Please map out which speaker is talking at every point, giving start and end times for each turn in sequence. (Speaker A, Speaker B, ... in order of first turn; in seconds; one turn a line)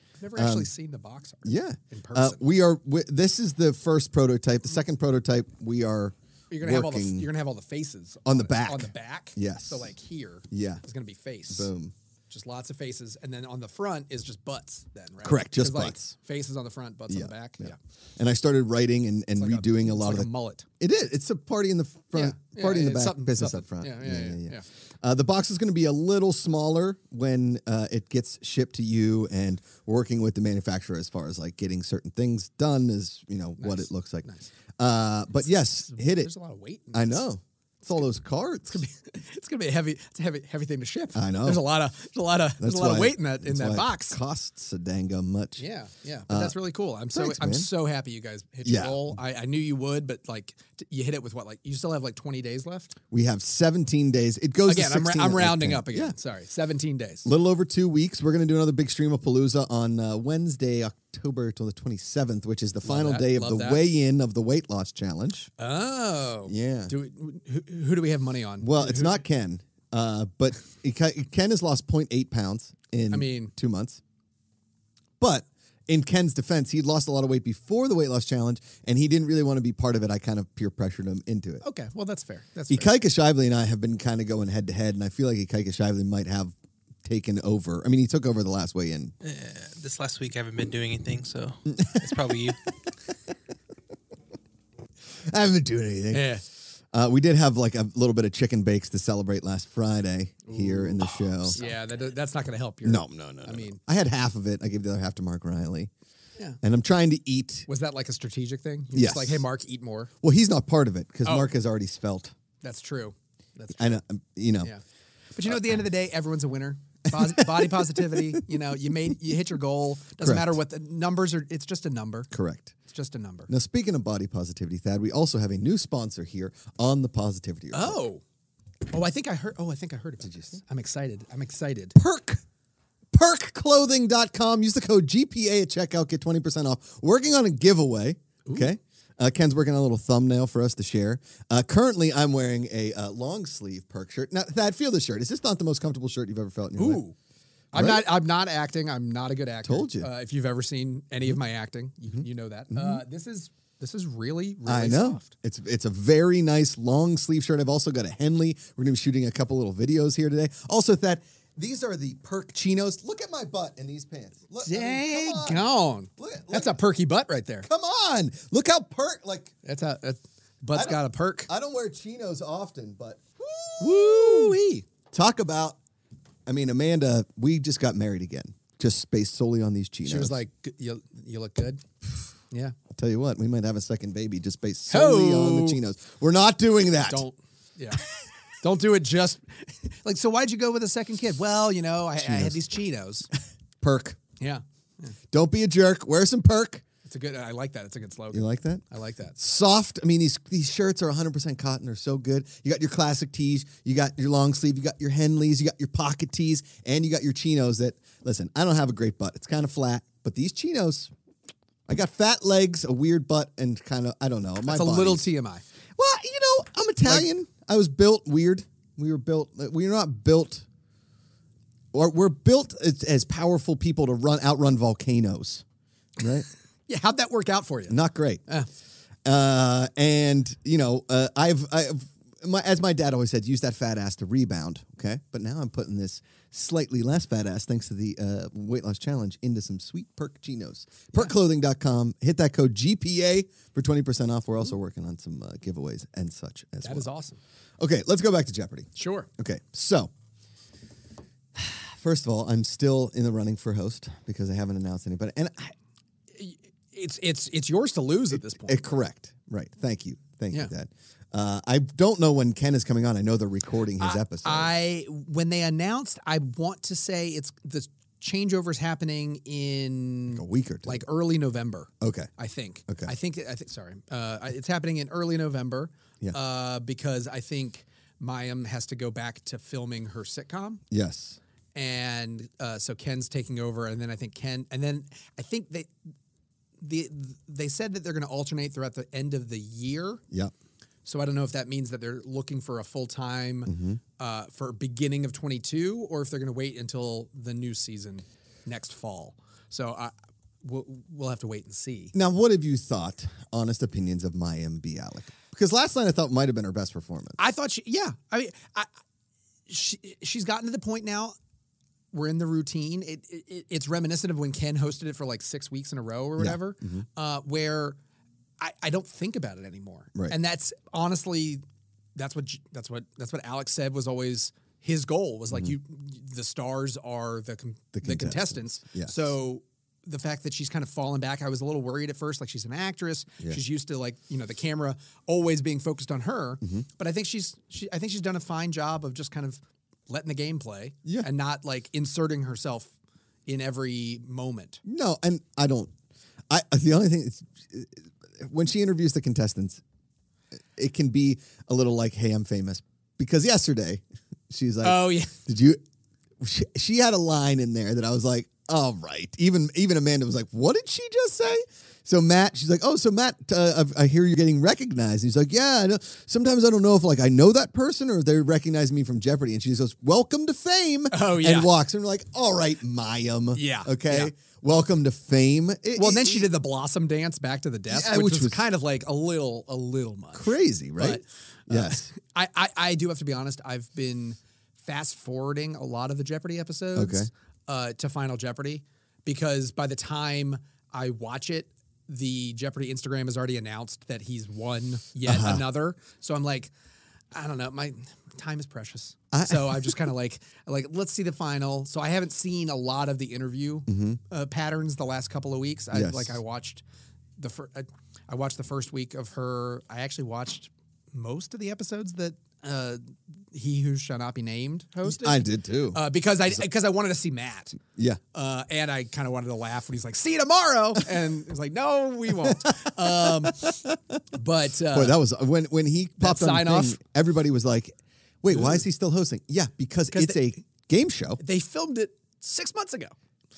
Speaker A: 0.2-2.4
Speaker B: 0.4-0.7
Speaker B: 1.4-7.3
Speaker A: 6.5-11.7
Speaker B: 8.2-9.9
Speaker B: 10.5-10.8
Speaker B: 11.5-11.9
Speaker A: 12.3-17.8
Speaker B: 15.2-16.1
Speaker B: 17.1-20.3
Speaker A: 19.4-20.7
Speaker B: 20.8-34.3
Speaker A: 22.1-24.6
Speaker A: 33.6-34.5
Speaker B: 34.8-36.3
Speaker A: 35.4-37.2
Speaker B: 36.9-38.8
Speaker A: 38.7-44.2
Speaker B: 41.1-41.6
Speaker B: 42.6-45.6
Speaker A: 45.6-53.0
Speaker B: 46.3-46.6
Speaker B: 47.1-47.7
Speaker B: 48.6-49.2
Speaker B: 53.1-56.1
Speaker A: 54.7-57.3
Speaker B: 57.2-65.5
Speaker A: 62.8-63.8
Speaker A: 65.6-69.2
Speaker B: 66.5-66.9
Speaker B: 68.6-74.0
Speaker A: 73.1-73.5
Speaker B: 75.2-81.6
Speaker A: 81.6-82.9
Speaker B: 82.7-86.5
Speaker B: 87.0-89.1
Speaker C: 89.2-92.6
Speaker B: 91.7-92.2
Speaker B: 95.3-96.4
Speaker A: 96.1-96.4
Speaker B: 96.9-101.6
Speaker A: 100.5-103.8
Speaker B: 102.8-105.9
Speaker B: 106.6-107.7
Speaker A: 107.7-110.1
Speaker B: 108.9-109.4
Speaker B: 110.2-112.3
Speaker A: 112.6-114.0
Speaker B: 113.8-114.7
Speaker A: 115.3-122.3
Speaker B: 117.2-118.2
Speaker B: 120.2-120.6
Speaker B: 122.3-122.7
Speaker A: 122.8-123.5
Speaker B: 123.5-128.0
Speaker A: 127.7-128.2
Speaker A: 128.9-132.0
Speaker B: 130.2-130.6
Speaker B: 131.9-132.4
Speaker B: 133.1-147.0
Speaker A: 138.5-138.7
Speaker A: 146.8-147.1
Speaker B: 147.7-148.1
Speaker A: 147.7-155.3
Speaker B: 149.6-150.1
Speaker B: 152.2-153.0
Speaker B: 154.7-165.7
Speaker A: 164.7-167.7
Speaker B: 166.2-166.8
Speaker B: 167.6-169.5
Speaker A: 169.6-171.5
Speaker B: 170.7-174.6
Speaker A: 173.8-174.9
Speaker B: 175.1-175.8
Speaker B: 176.5-180.4
Speaker A: 180.1-181.8
Speaker A: 182.5-182.8
Speaker B: 182.9-187.2
Speaker A: 184.9-185.8
Speaker A: 187.0-188.1
Speaker A: 188.6-193.3
Speaker B: 192.2-192.6
Speaker B: 193.8-194.2
Speaker A: 194.4-195.1
Speaker B: 195.3-196.8
Speaker A: 197.1-199.4
Speaker B: 198.3-198.8
Speaker B: 199.4-211.1
Speaker B: 211.9-215.3
Speaker A: 214.7-215.6
Speaker B: 216.0-220.7
Speaker B: 221.9-225.6
Speaker B: 226.2-226.5
Speaker A: 226.9-228.7
Speaker B: 227.9-228.4
Speaker B: 229.2-247.1
Speaker A: 246.8-247.4
Speaker B: 247.8-250.1
Speaker A: 248.9-249.3
Speaker B: 251.6-255.8
Speaker A: 256.3-258.9
Speaker B: 258.6-264.7
Speaker A: 264.0-280.8
Speaker B: 270.3-271.1
Speaker B: 272.0-272.3
Speaker B: 280.9-281.4
Speaker A: 281.8-285.9
Speaker A: 286.8-290.2
Speaker A: 291.1-302.1
Speaker B: 293.7-294.0
Speaker B: 302.1-307.4
Speaker A: 307.4-308.9
Speaker A: 309.7-311.4
Speaker A: 312.1-318.0
Speaker B: 316.4-317.1
Speaker A: 318.6-321.6
Speaker A: 322.2-342.9
Speaker B: 325.5-325.8
Speaker B: 327.9-329.4
Speaker A: 343.5-344.8
Speaker B: 344.8-345.9
Speaker B: 346.5-349.8
Speaker B: 350.8-355.8
Speaker A: 354.8-355.4
Speaker B: 356.4-376.5
Speaker A: 371.1-371.7
Speaker A: 373.5-374.3
Speaker A: 376.0-396.7
Speaker B: 377.9-378.6
Speaker B: 380.3-382.1
Speaker B: 386.9-387.3
Speaker B: 395.2-395.6
Speaker A: 397.3-406.8
Speaker B: 399.3-400.1
Speaker B: 403.9-404.2
Speaker B: 405.9-406.4
Speaker A: 407.4-417.8
Speaker B: 415.0-416.6
Speaker B: 417.9-418.2
Speaker A: 418.3-423.8
Speaker B: 422.4-424.2
Speaker A: 424.3-425.2
Speaker B: 424.9-431.4
Speaker A: 426.2-427.0
Speaker A: 428.5-428.8
Speaker A: 430.1-430.4
Speaker A: 431.4-433.1